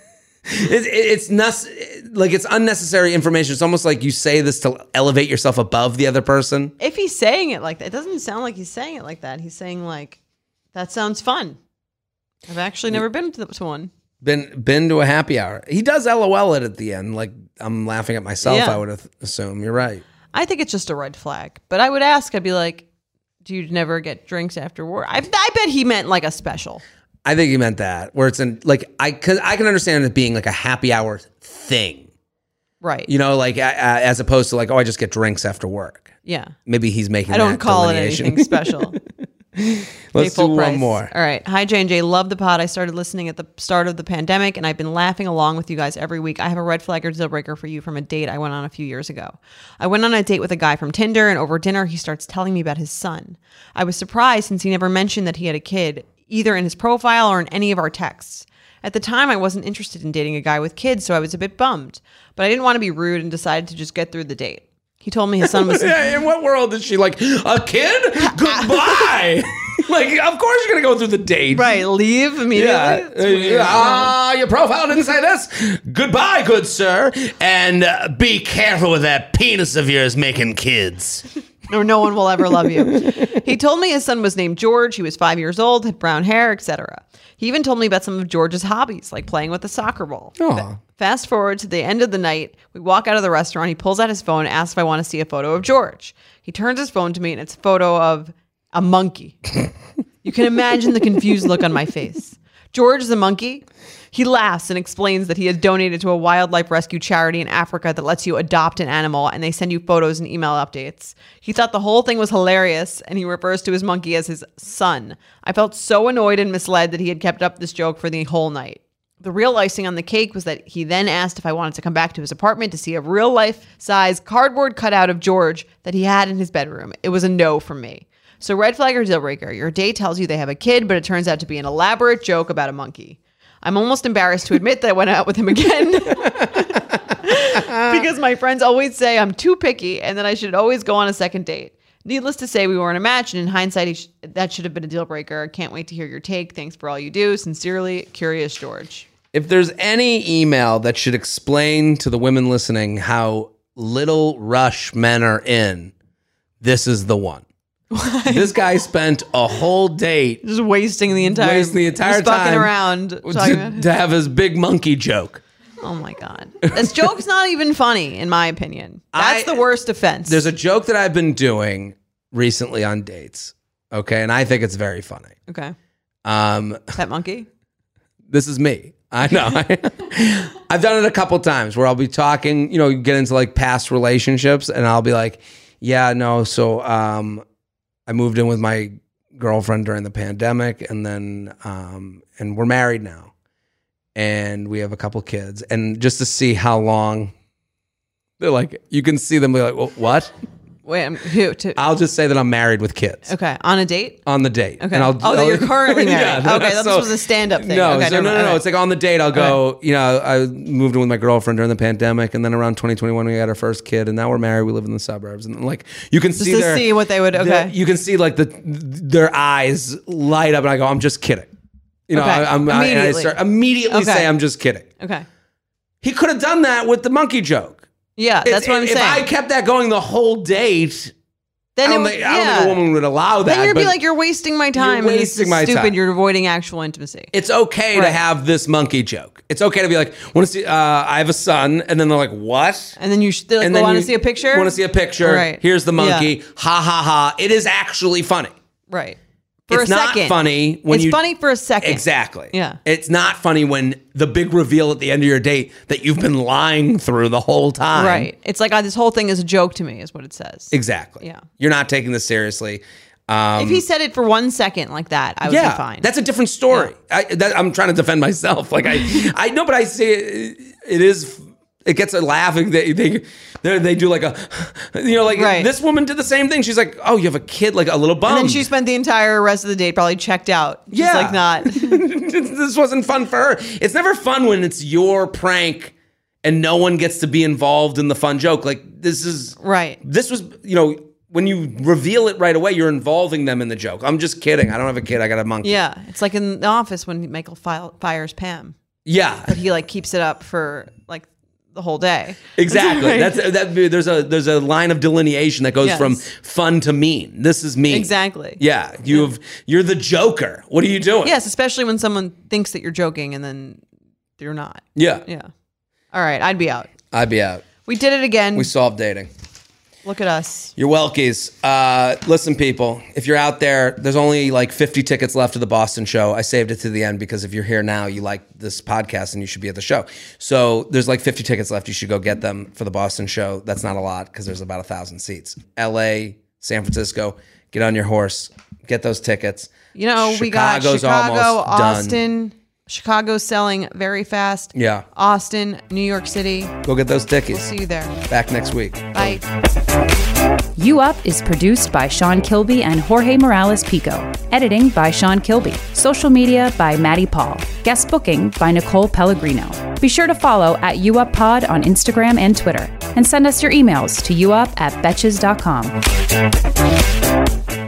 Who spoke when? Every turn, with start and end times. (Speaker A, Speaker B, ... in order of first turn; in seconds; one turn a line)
Speaker A: 0.4-6.7
Speaker B: 6.8-10.2
Speaker B: 10.7-11.6
Speaker B: 12.5-13.9
Speaker A: 14.2-20.0
Speaker B: 18.4-18.8
Speaker B: 20.3-22.9
Speaker B: 23.4-26.8
Speaker A: 27.2-32.1
Speaker B: 32.8-33.1
Speaker A: 33.1-36.1
Speaker B: 36.2-36.5
Speaker A: 36.6-39.0
Speaker B: 37.3-39.0
Speaker A: 39.5-41.1
Speaker B: 40.1-66.2
Speaker A: 65.4-71.8
Speaker B: 68.2-69.1
Speaker B: 71.5-74.1
Speaker A: 72.5-81.3
Speaker B: 81.7-99.5
Speaker A: 82.8-83.2
Speaker A: 90.4-90.8
Speaker B: 100.2-149.1
Speaker A: 137.5-138.0
Speaker A: 149.3-155.9
Speaker A: 156.6-157.4
Speaker B: 157.9-158.5
Speaker A: 158.3-160.4
Speaker B: 160.4-163.8
Speaker A: 161.3-162.7
Speaker A: 163.2-165.4
Speaker B: 165.8-170.4
Speaker A: 166.6-167.1
Speaker A: 169.1-169.7
Speaker A: 170.2-175.4
Speaker B: 175.5-175.7
Speaker A: 176.2-176.9
Speaker B: 176.9-177.5
Speaker A: 178.3-187.4
Speaker A: 188.1-193.3
Speaker A: 194.1-197.3
Speaker A: 198.4-200.3
Speaker B: 200.8-201.8
Speaker A: 201.8-203.3
Speaker B: 203.2-204.2
Speaker A: 204.2-221.5
Speaker B: 204.8-208.6
Speaker B: 216.4-217.7
Speaker A: 222.1-224.9
Speaker B: 222.1-223.3
Speaker B: 223.9-224.3
Speaker B: 225.0-225.2
Speaker A: 226.0-227.8
Speaker B: 228.2-229.2
Speaker A: 228.4-231.1
Speaker B: 231.8-232.8
Speaker A: 231.8-234.0
Speaker B: 233.4-237.3
Speaker A: 234.7-235.9
Speaker A: 237.3-242.9
Speaker B: 237.9-238.2
Speaker B: 243.0-246.3
Speaker A: 243.6-248.5
Speaker B: 248.9-252.8
Speaker A: 249.7-251.2
Speaker A: 251.8-258.3
Speaker B: 257.9-261.4
Speaker A: 260.7-263.8
Speaker B: 263.6-266.1
Speaker A: 265.4-278.7
Speaker B: 275.3-275.7
Speaker B: 278.2-282.0
Speaker A: 280.9-295.8
Speaker B: 289.6-290.0
Speaker B: 295.6-298.8
Speaker A: 299.1-299.5
Speaker B: 299.4-303.4
Speaker A: 302.5-311.3
Speaker B: 305.8-306.2
Speaker B: 307.9-309.2
Speaker B: 311.2-313.8
Speaker B: 314.4-315.5
Speaker A: 314.9-315.2
Speaker B: 316.1-316.9
Speaker A: 317.1-317.7
Speaker B: 317.8-318.7
Speaker A: 318.5-319.3
Speaker B: 320.0-320.7
Speaker A: 320.8-342.2
Speaker B: 339.9-346.7
Speaker A: 344.7-345.1
Speaker A: 346.8-349.4
Speaker B: 347.5-348.1
Speaker B: 349.1-349.4
Speaker C: 350.8-365.9